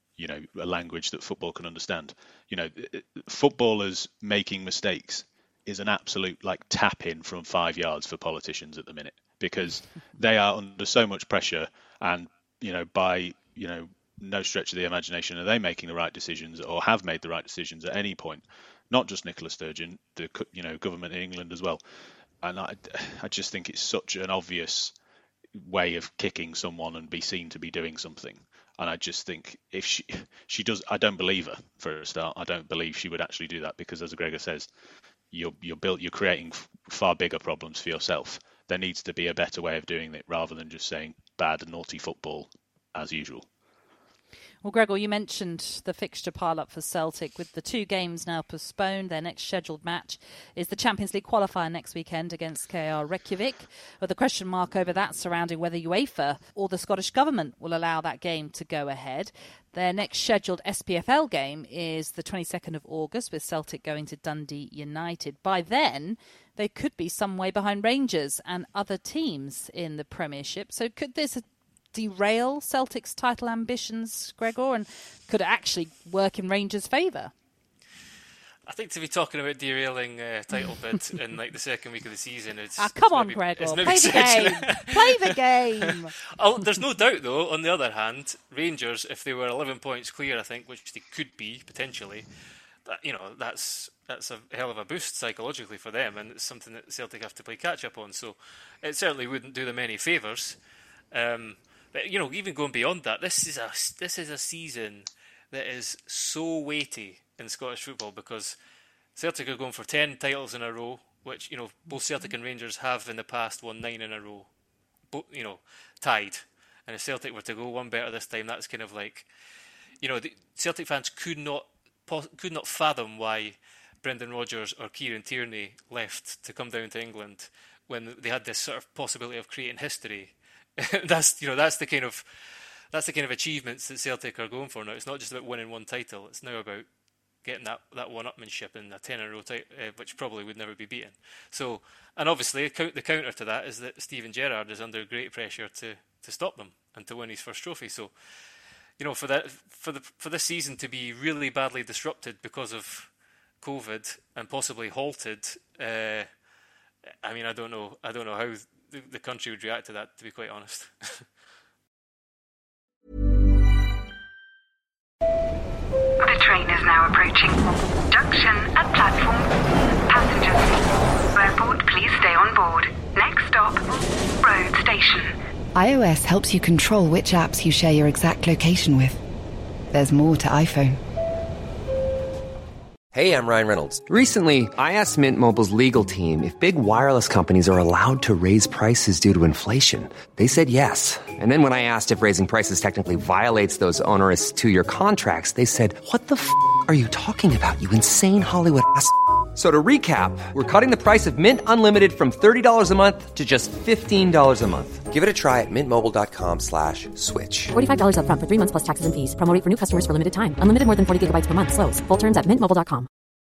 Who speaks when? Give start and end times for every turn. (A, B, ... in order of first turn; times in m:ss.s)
0:00.2-0:21.8 A
0:22.4-0:24.9 A
0:25.5-0:34.7 A
0:35.3-0:43.5 A
0:44.6-1:17.3 B
1:18.7-1:25.3 C
1:22.8-1:26.1 B
1:25.9-1:32.3 C
1:32.8-1:40.6 C
1:41.1-1:48.6 C
1:49.1-1:54.5 C
1:55.1-1:59.3 C
2:00.0-2:16.8 C
2:17.4-2:28.1 C
2:29.0-2:36.3 C
2:37.2-2:41.3 C
2:46.2-2:49.6 D
2:50.1-2:55.3 D
2:55.7-2:59.2 E
2:59.9-3:01.0 E
3:03.1-3:27.7 F
3:27.7-3:33.1 G